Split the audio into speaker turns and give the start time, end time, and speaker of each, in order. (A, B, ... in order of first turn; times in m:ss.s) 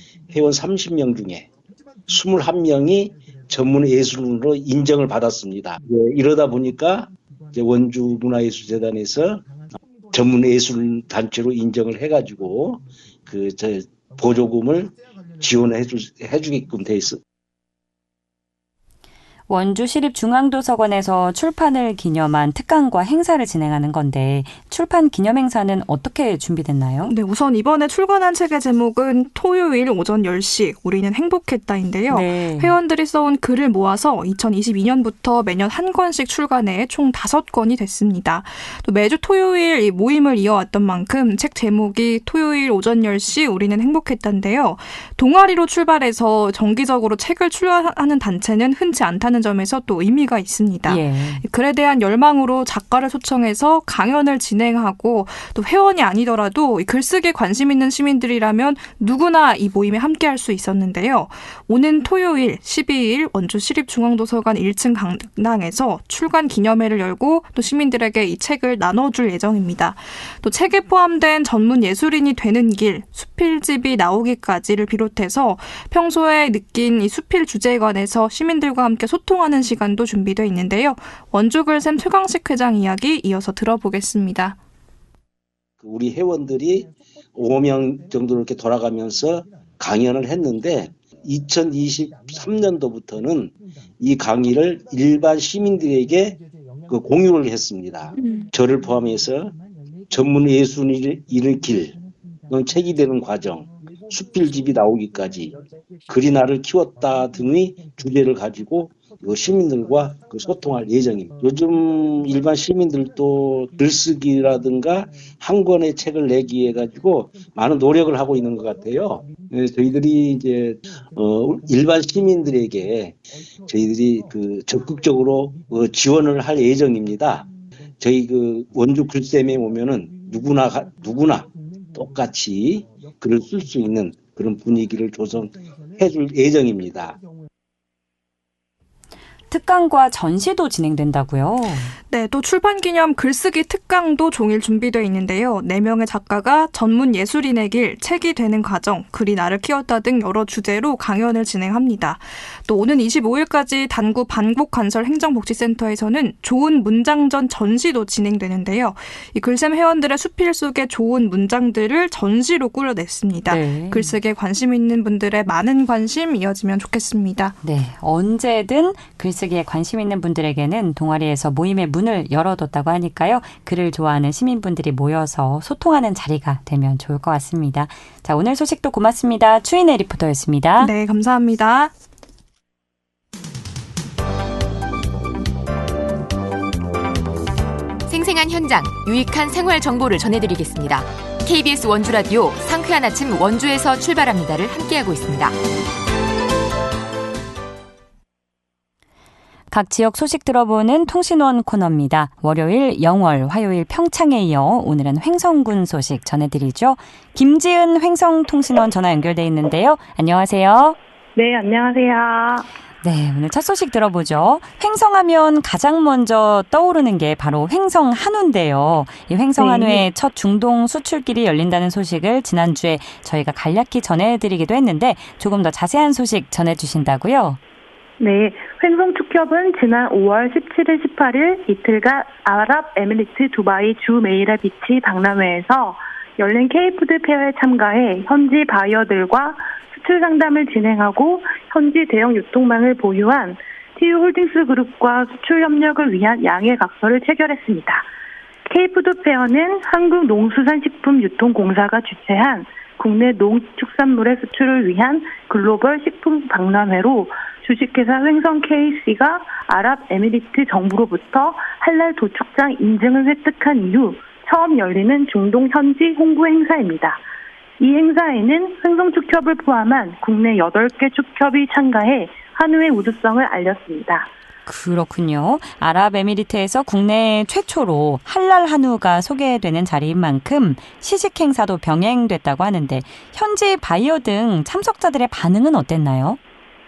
0:00.3-0:01.5 A
0:02.1-0:09.5 A
0:10.1-0:17.2 A
0:19.5-0:27.2 B
0:27.0-1:24.6 C
0:32.1-0:32.8 B
0:50.9-0:51.4 B
1:25.8-1:39.6 A
1:40.1-2:17.2 A
2:19.5-2:22.0 B
2:22.1-2:47.6 C
2:43.5-2:44.2 B
2:47.6-3:00.9 B
3:00.8-3:01.9 C
3:08.1-3:15.6 D
3:19.7-3:31.0 B
3:31.4-3:32.7 E
3:33.0-3:47.6 B
3:39.6-3:40.0 E
3:48.2-4:08.1 E
4:08.7-4:27.2 E
4:27.8-4:34.3 E
4:34.7-4:46.4 B